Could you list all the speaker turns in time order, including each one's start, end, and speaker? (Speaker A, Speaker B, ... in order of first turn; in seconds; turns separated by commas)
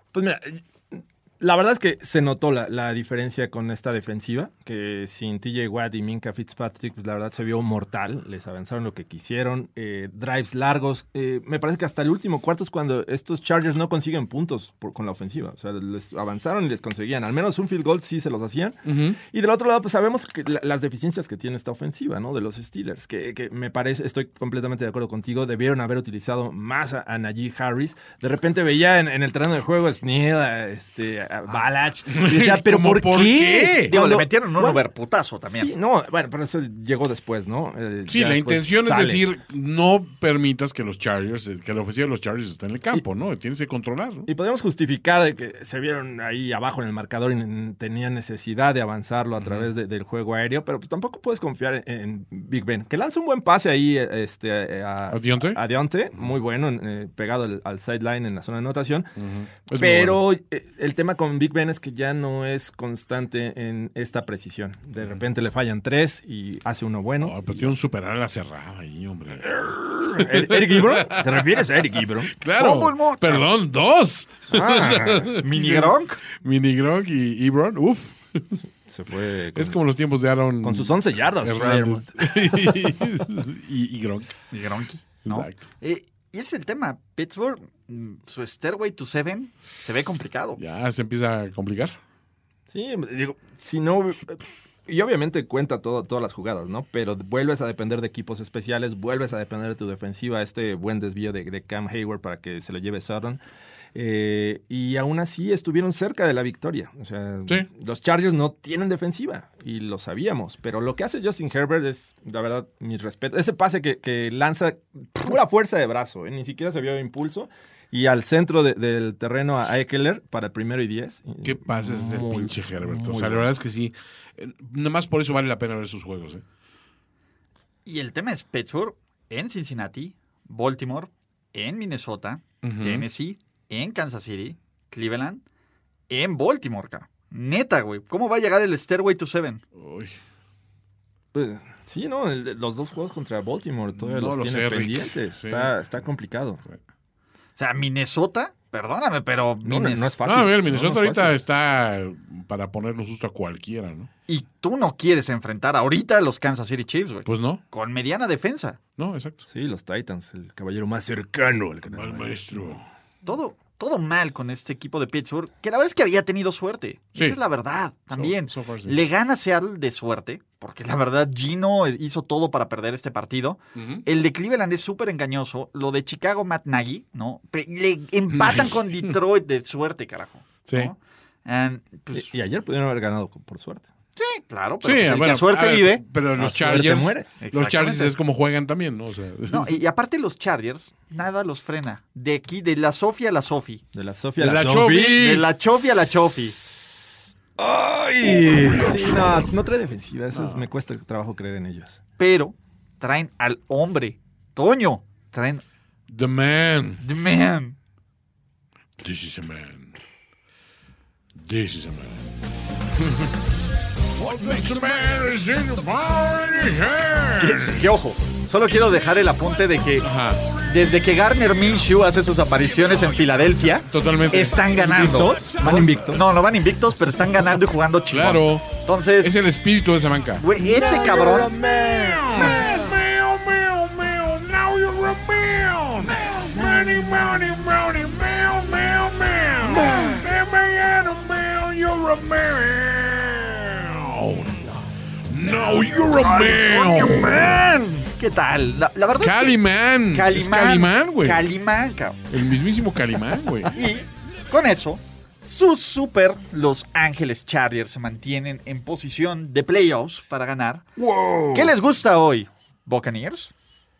Speaker A: 0.1-34.8, Speaker B: 18.9-19.2, Speaker B: 32.1-33.9, Speaker C: 33.8-35.7, Speaker A: 35.5-39.2, Speaker B: 38.1-44.3, Speaker A: 44.3-59.1, Speaker B: 49.4-49.7, Speaker B: 55.1-55.6, Speaker B: 59.2-60.2, Speaker A: 59.8-67.8, Speaker B: 67.2-71.6, Speaker A: 69.5-72.3, Speaker B: 72.3-78.5, Speaker C: 72.6-73.5, Speaker A: 74.5-75.3, Speaker C: 75.4-76.2, Speaker A: 78.6-79.8, Speaker B: 79.5-84.3, Speaker A: 80.6-82.8, Speaker C: 84.5-90.6, Speaker B: 85.3-85.6, Speaker B: 90.6-92.0, Speaker A: 92.7-103.4, Speaker A: 104.0-123.5, Speaker B: 121.4-126.4, Speaker C: 127.9-135.4, Speaker B: 132.6-133.1, Speaker C: 136.1-139.6, Speaker B: 139.8-140.2, Speaker A: 141.3-146.6, Speaker B: 143.9-145.8, Speaker C: 147.6-150.2, Speaker A: 149.6-151.4, Speaker B: 150.2-154.1, Speaker C: 154.3-158.8, Speaker B: 157.3-157.6, Speaker B: 159.0-159.4, Speaker A: 159.5-162.8, Speaker B: 161.9-162.9, Speaker C: 163.2-182.3, Speaker B: 168.1-169.0, Speaker B: 173.8-174.1, Speaker B: 178.3-179.2, Speaker B: 180.7-180.9, Speaker A: 182.1-183.9, Speaker C: 184.2-186.0, Speaker B: 184.8-189.8, Speaker A: 186.3-187.3, Speaker C: 187.4-188.1, Speaker C: 189.5-193.8, Speaker A: 193.9-195.2, Speaker B: 194.4-195.5, Speaker C: 195.1-196.6, Speaker A: 197.6-202.0, Speaker B: 200.3-200.7, Speaker C: 202.2-205.6, Speaker B: 206.1-207.0, Speaker C: 207.0-207.8, Speaker B: 209.0-209.9, Speaker B: 211.3-212.3, Speaker B: 214.2-217.8, Speaker C: 217.4-220.1, Speaker B: 220.0-220.4, Speaker C: 220.6-229.3, Speaker B: 223.8-224.7, Speaker A: 224.7-226.2, Speaker B: 228.1-230.4, Speaker C: 230.4-231.5, Speaker A: 230.6-232.9, Speaker B: 231.9-247.6, Speaker A: 236.1-237.3, Speaker A: 239.7-240.2, Speaker C: 245.5-249.6, Speaker B: 249.2-251.4, Speaker C: 250.1-252.2, Speaker B: 252.3-253.8, Speaker C: 253.7-260.9, Speaker A: 261.0-261.8, Speaker C: 261.5-263.5